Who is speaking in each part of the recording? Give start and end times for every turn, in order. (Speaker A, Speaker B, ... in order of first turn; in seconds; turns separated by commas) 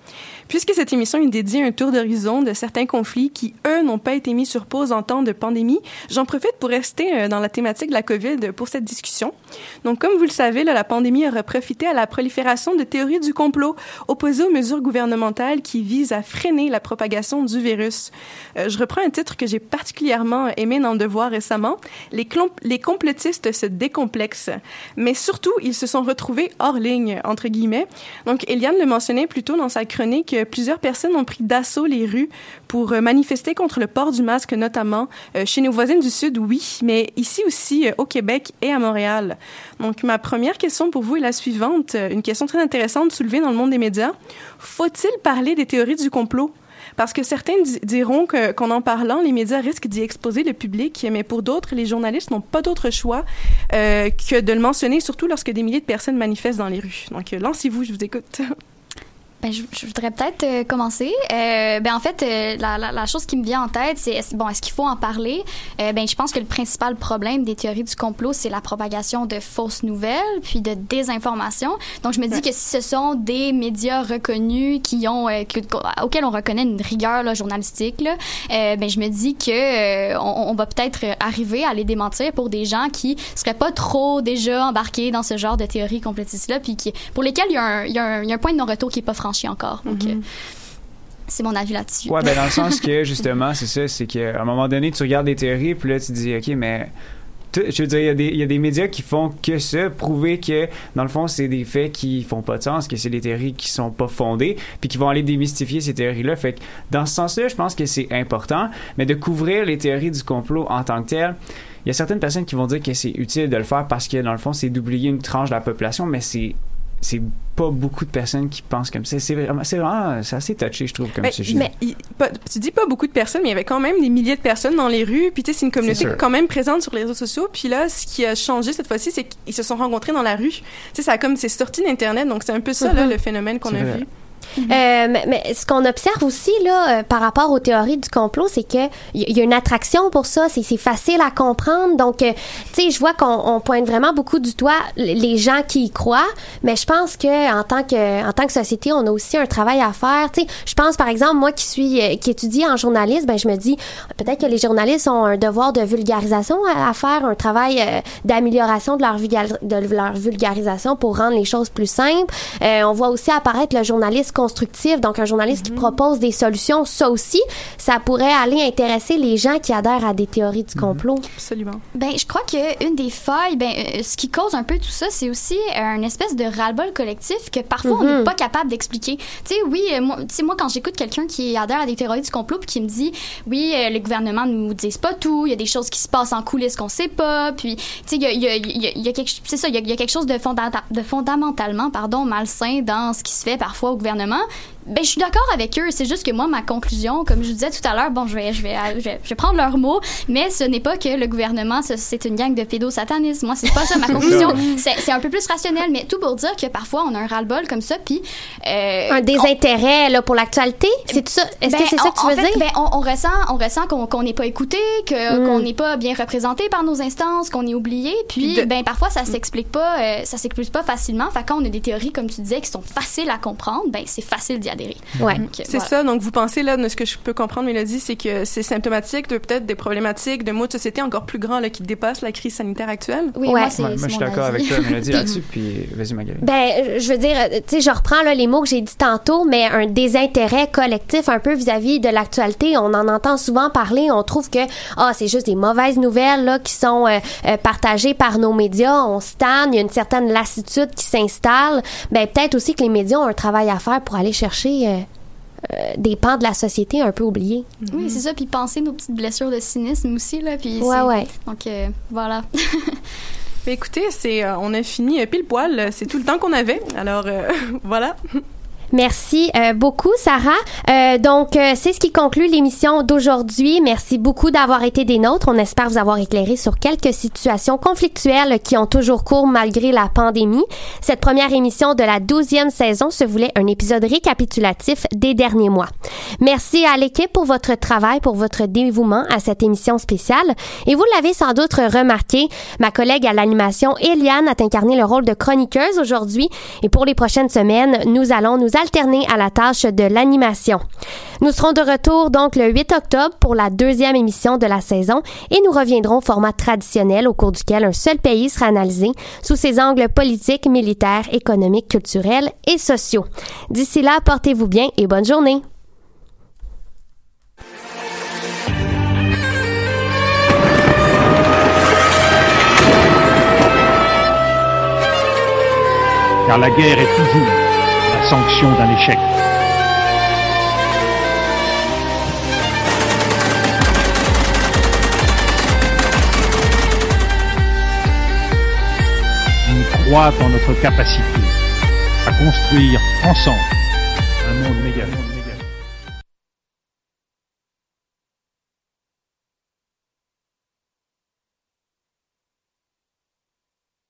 Speaker A: 0.5-58.5, Speaker B: 59.4-90.2, Speaker A: 89.9-90.2, Speaker B: 91.3-92.8, Speaker C: 92.1-96.9, Speaker C: 97.5-121.7, Speaker A: 121.2-134.1, Speaker C: 125.9-126.2, Speaker C: 133.7-134.0, Speaker D: 134.7-171.2, Speaker A: 165.5-165.9, Speaker A: 171.4-171.8, Speaker B: 171.9-209.5, Speaker D: 177.9-178.3, Speaker A: 204.3-204.6, Speaker D: 209.1-212.6, Speaker B: 211.1-225.9, Speaker D: 215.3-215.7, Speaker A: 218.4-218.7, Speaker D: 225.2-225.4, Speaker A: 225.4-233.3, Speaker B: 233.3-235.3, Speaker C: 233.8-236.4, Speaker D: 236.4-255.1, Speaker D: 255.6-257.7, Speaker A: 257.9-258.2, Speaker B: 257.9-263.0, Speaker D: 260.8-261.3, Speaker A: 263.6-268.4, Speaker D: 268.9-300.8, Speaker D: 301.4-315.6, Speaker E: 326.4-329.3, Speaker E: 339.6-341.5, Speaker E: 342.2-343.7, Speaker E: 344.4-345.6